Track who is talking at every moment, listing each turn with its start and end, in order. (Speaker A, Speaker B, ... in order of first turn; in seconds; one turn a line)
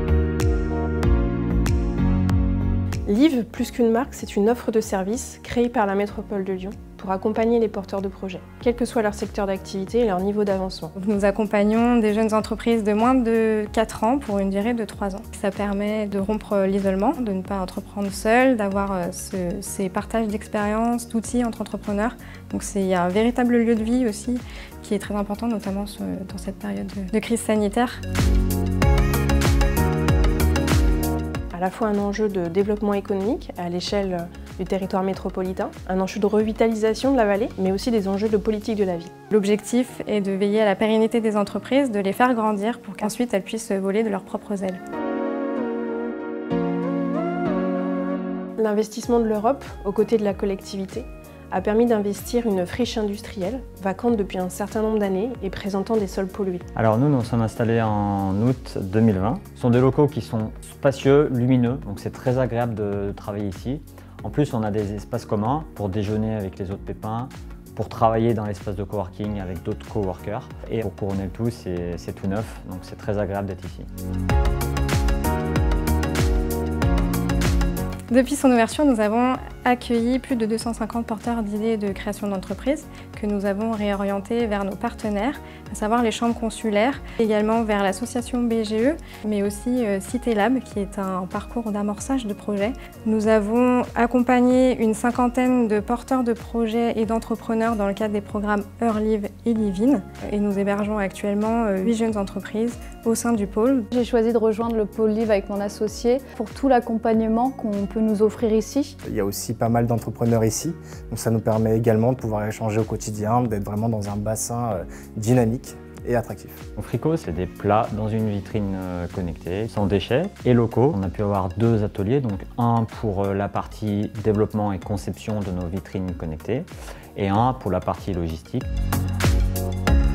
Speaker A: 3.0-10.9
Speaker B: 11.0-28.0
Speaker A: 31.5-39.1
Speaker B: 39.3-44.8
Speaker A: 48.6-56.6
Speaker C: 56.8-73.9
Speaker B: 78.1-103.9
Speaker D: 103.9-109.0
Speaker E: 109.0-116.6
Speaker C: 116.8-128.7